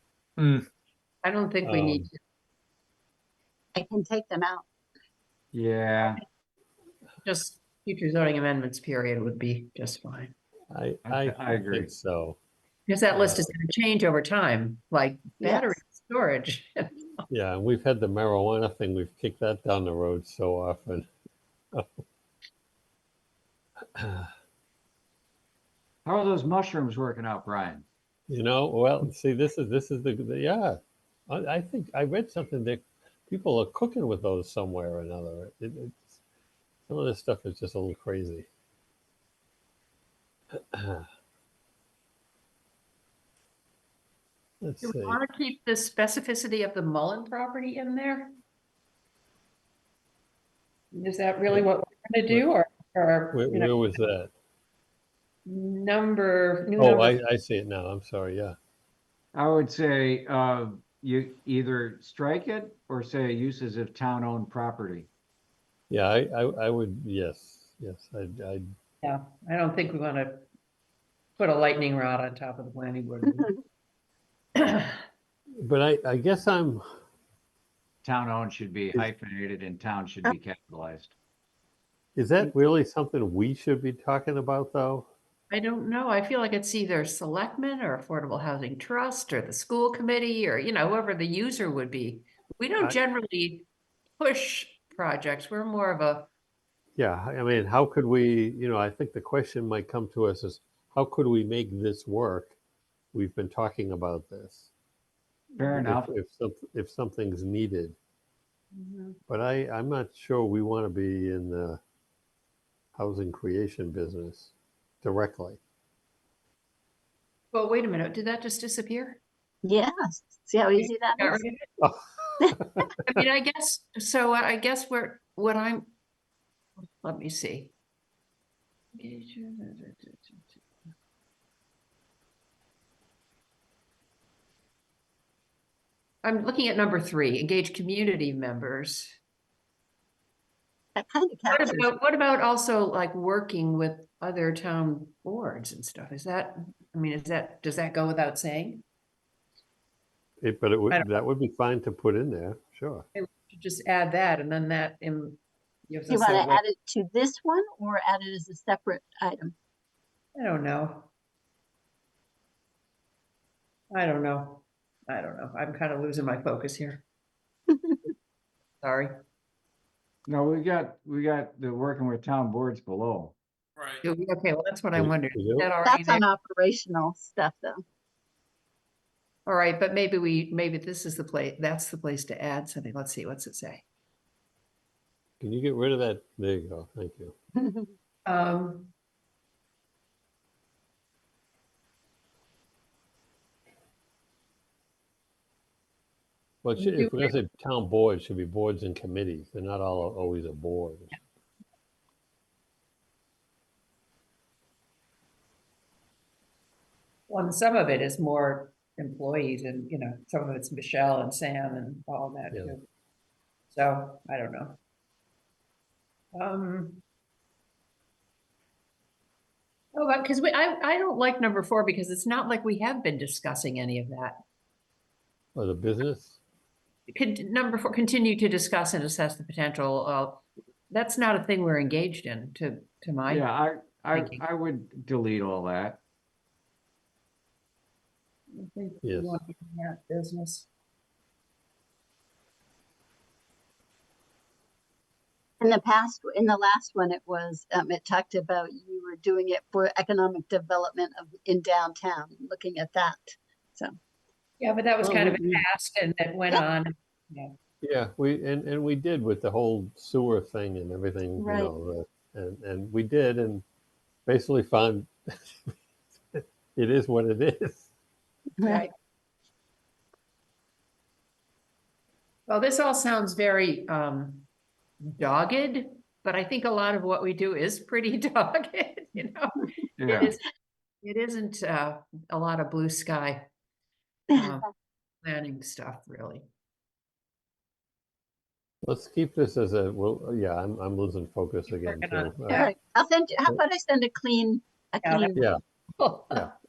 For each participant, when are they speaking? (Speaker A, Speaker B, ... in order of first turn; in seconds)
Speaker A: 0.4-0.6, 5.5-6.2, 11.1-11.9, 26.1-27.9, 59.3-65.1, 78.0-81.1, 105.6-106.1, 170.3-173.4, 233.3-236.0, 280.0-280.3
Speaker B: 1.2-2.2, 7.2-10.3, 12.9-16.9, 44.8-48.3, 50.9-53.8, 55.5-57.2, 69.0-70.5, 71.4-73.5, 74.6-75.0, 85.5-93.7, 94.2-96.3, 105.5-105.8, 108.7-109.2, 117.5-119.2, 120.8-121.7, 123.0-125.9, 127.0-127.7, 128.9-130.6, 136.2-139.2, 141.5-148.8, 153.2-156.6, 160.4-161.1, 163.9-167.0, 168.8-169.1, 174.0-176.2, 179.5-183.8, 188.3-188.9, 196.8-197.4, 207.3-212.8, 213.7-214.8, 216.3-217.0, 219.9-224.4, 227.1-233.5, 234.1-234.4, 238.5-240.7, 254.6-257.5, 268.6-268.9, 272.5-274.5, 275.0-280.4, 281.0-283.5, 284.3-284.7, 285.2-286.5, 291.7-292.7, 295.0-295.4, 296.0-296.5
Speaker C: 1.6-2.1, 10.7-12.4, 13.1-13.5, 17.3-21.1, 24.0-24.3, 28.3-36.2, 36.9-38.5, 40.6-41.1, 44.6-45.2, 53.3-54.3, 56.8-58.6, 65.9-68.7, 75.6-76.8, 82.2-85.1, 97.0-102.5, 103.1-104.7, 105.8-108.0, 109.3-111.8, 113.0-115.6, 121.8-123.2, 150.4-153.1, 174.9-175.7, 185.4-187.4, 196.6-201.2, 225.6-226.4, 239.0-239.4, 255.0-255.6, 257.8-263.6, 264.3-265.1, 266.3-267.9, 288.8-292.7
Speaker D: 3.8-4.7, 15.4-15.8, 119.6-121.4, 141.0-141.9, 156.1-159.5, 167.7-168.1, 175.8-177.8, 245.6-253.9, 261.4-261.7, 268.6-268.9, 284.3-284.6, 292.5-295.4